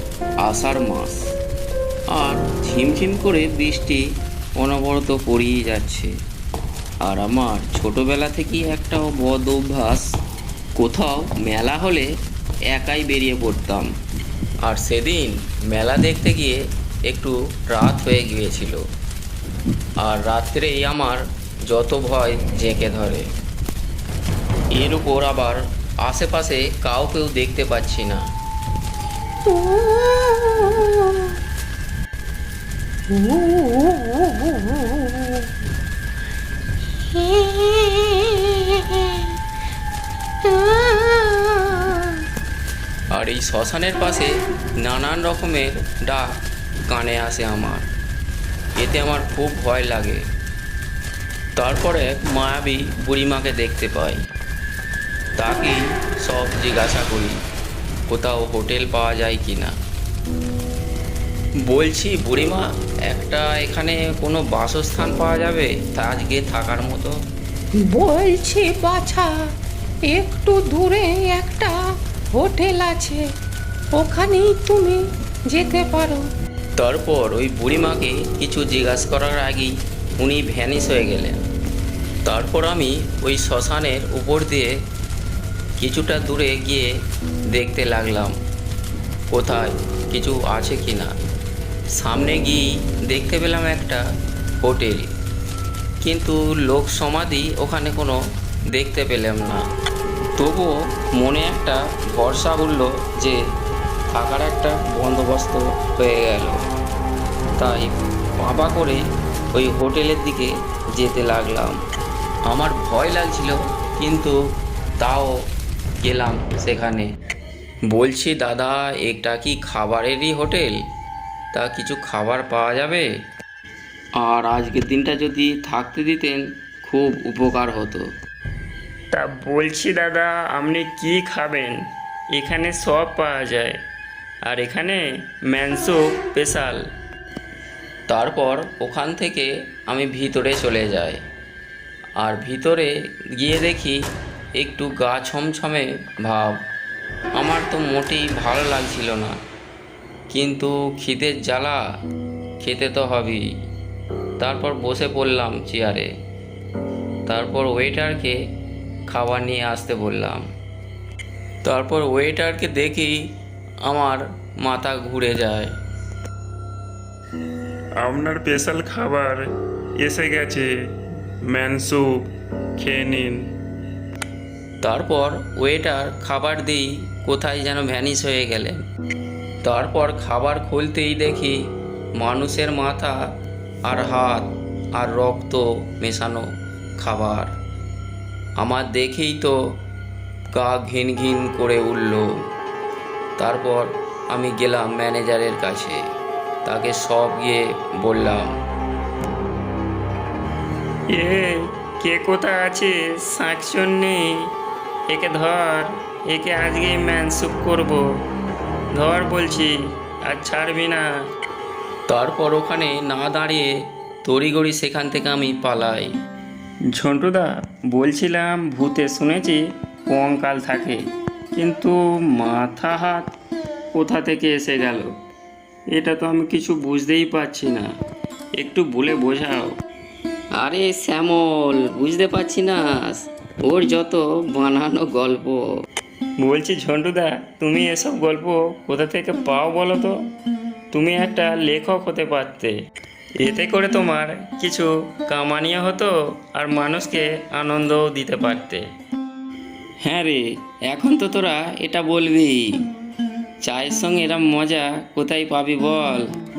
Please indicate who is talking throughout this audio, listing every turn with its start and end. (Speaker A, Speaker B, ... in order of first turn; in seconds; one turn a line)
Speaker A: 0.4-1.3
Speaker A: 2.1-4.0
Speaker A: 4.6-6.1
Speaker A: 7.0-10.1
Speaker A: 10.8-12.1
Speaker A: 12.7-13.9
Speaker A: 14.6-18.9
Speaker A: 20.0-23.3
Speaker A: 24.7-28.2
Speaker B: 29.4-31.4
Speaker B: 33.1-35.5
Speaker B: 37.1-39.3
Speaker B: 40.4-42.2
Speaker A: 43.1-47.9
Speaker A: 48.8-50.2
Speaker A: 51.6-54.2
Speaker A: 55.4-57.4
Speaker A: 58.1-59.8
Speaker A: 61.7-67.2
Speaker B: 67.8-69.3
Speaker B: 70.1-71.8
Speaker B: 72.3-73.3
Speaker B: 73.9-76.3
Speaker A: 76.8-81.4
Speaker A: 82.2-84.8
Speaker A: 85.8-87.0
Speaker A: 87.5-88.4
Speaker A: 89.3-91.2
Speaker A: 92.0-94.0
Speaker A: 94.6-95.1
Speaker A: 96.0-98.2
Speaker A: 98.7-99.7
Speaker A: 100.4-103.4
Speaker A: 104.1-106.6
Speaker A: 107.6-109.0
Speaker A: 109.5-111.8
Speaker A: 112.5-114.4
Speaker A: 115.0-115.4
Speaker A: 116.0-117.1
Speaker A: 117.9-120.8
Speaker A: 121.5-123.1
Speaker A: 124.2-128.1
Speaker C: 129.1-133.8
Speaker C: 134.5-136.8
Speaker A: 138.1-141.2
Speaker A: 142.2-144.0
Speaker A: 144.6-146.6
Speaker A: 147.4-149.3
Speaker A: 150.3-151.8
Speaker A: 152.6-153.4
Speaker A: 154.4-156.1
Speaker A: 157.3-158.4
Speaker A: 159.1-160.5
Speaker A: 161.6-163.2
Speaker A: 163.8-165.7
Speaker C: 168.0-170.7
Speaker C: 171.5-172.3
Speaker C: 172.8-173.5
Speaker A: 174.8-178.8
Speaker A: 179.6-181.6
Speaker A: 182.2-183.2
Speaker A: 183.8-187.5
Speaker A: 188.6-189.8
Speaker A: 190.5-192.4
Speaker A: 193.4-196.0
Speaker A: 196.7-198.6
Speaker C: 201.1-204.5
Speaker C: 205.1-208.1
Speaker C: 208.9-211.1
Speaker A: 212.1-216.2
Speaker C: 216.9-221.0
Speaker C: 221.6-223.2
Speaker C: 224.0-225.1
Speaker C: 225.9-227.9
Speaker C: 228.6-229.7
Speaker A: 230.6-235.7
Speaker C: 236.4-240.2
Speaker C: 240.9-242.7
Speaker C: 243.4-248.8
Speaker A: 250.0-252.8
Speaker A: 253.6-256.3